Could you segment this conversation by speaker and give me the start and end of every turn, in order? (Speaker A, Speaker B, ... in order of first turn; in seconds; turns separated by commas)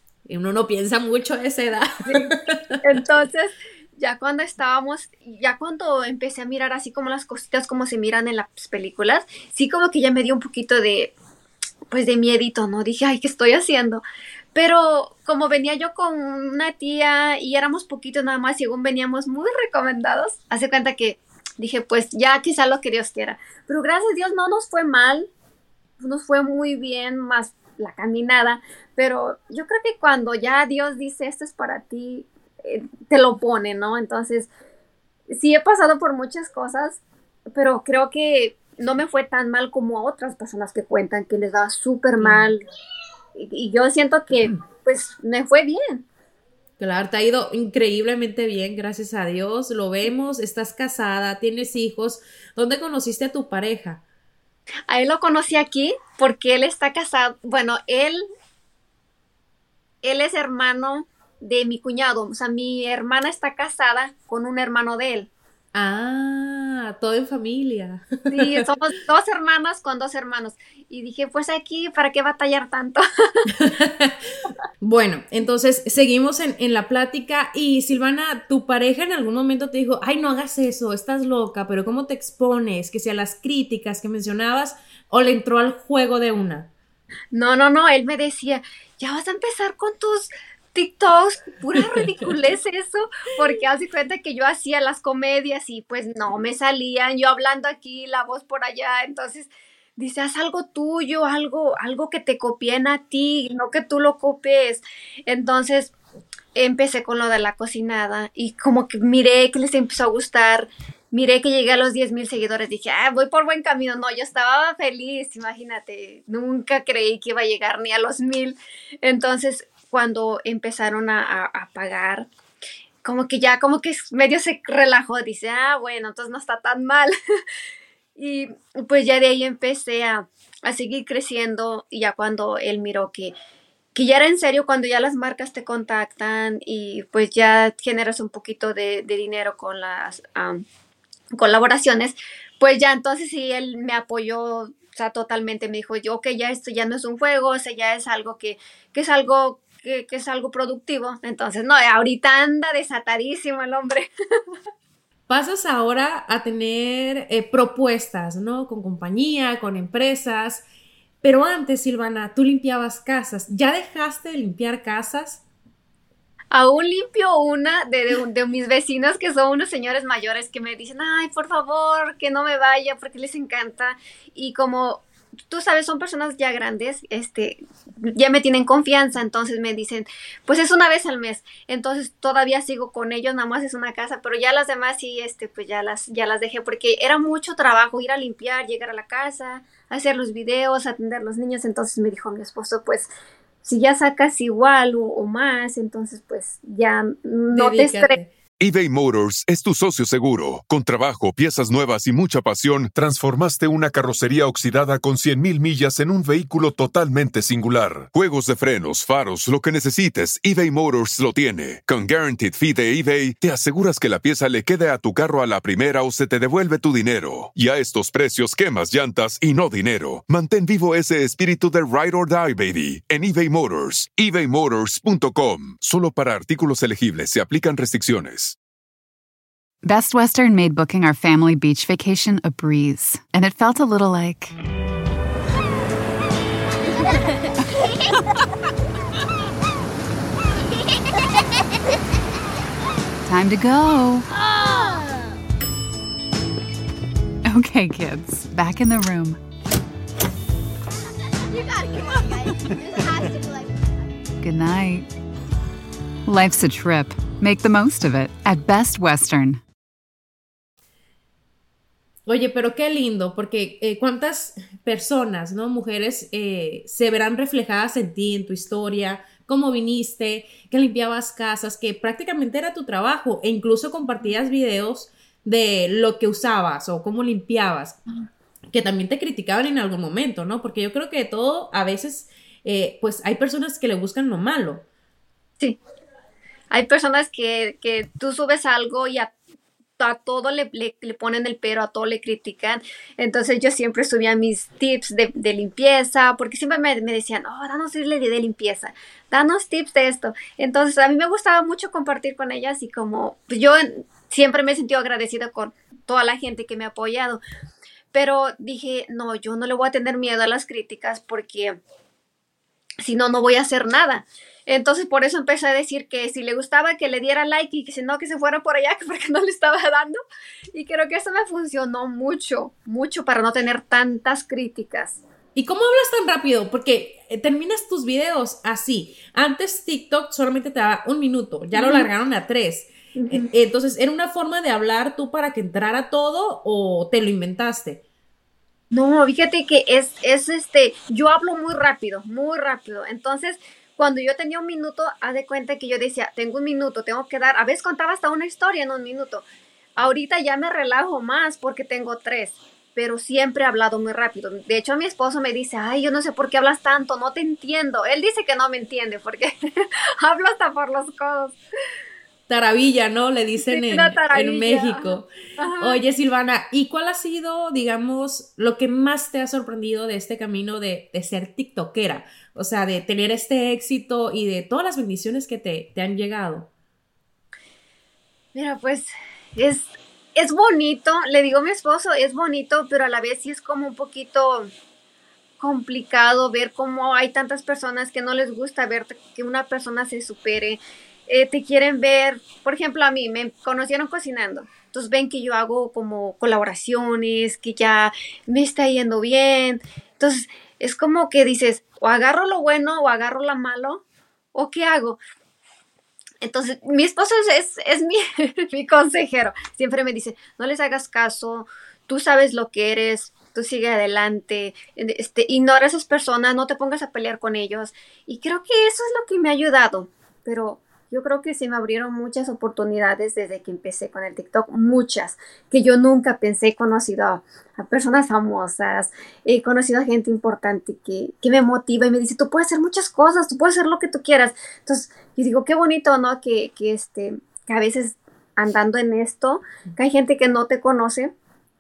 Speaker A: 0.3-2.8, Speaker B: 2.1-11.1, Speaker B: 11.9-25.3, Speaker B: 26.0-34.5, Speaker B: 35.3-37.0, Speaker B: 37.5-42.6, Speaker A: 42.2-42.5, Speaker B: 43.4-46.0, Speaker A: 46.8-54.0, Speaker B: 54.9-58.2, Speaker B: 60.0-65.3, Speaker A: 65.7-68.6, Speaker B: 68.3-73.5, Speaker A: 73.5-74.2, Speaker A: 74.8-86.7, Speaker B: 87.3-105.9, Speaker B: 106.5-122.3, Speaker B: 123.0-127.1, Speaker B: 128.2-133.3, Speaker B: 133.9-140.6, Speaker B: 141.4-154.1, Speaker A: 155.3-160.6, Speaker A: 161.2-165.4, Speaker B: 166.5-193.1, Speaker B: 193.6-198.2, Speaker A: 197.5-198.3, Speaker C: 198.6-228.6, Speaker D: 229.8-234.5, Speaker E: 236.9-237.2, Speaker D: 243.2-244.3, Speaker E: 244.3-245.3, Speaker D: 247.5-249.4, Speaker E: 251.5-254.0, Speaker D: 254.4-255.1, Speaker D: 256.2-259.6, Speaker A: 262.2-278.0, Speaker A: 278.7-284.9, Speaker B: 286.7-289.3, Speaker B: 290.0-307.4, Speaker B: 308.1-311.8, Speaker B: 313.0-320.2, Speaker B: 320.7-325.2, Speaker A: 325.5-338.0, Speaker B: 331.8-332.1, Speaker B: 333.1-333.5, Speaker B: 338.9-349.4, Speaker B: 350.0-361.6, Speaker A: 362.5-376.7, Speaker B: 363.6-366.0, Speaker B: 378.5-384.7, Speaker B: 385.6-404.0, Speaker B: 404.5-405.2, Speaker B: 406.4-441.3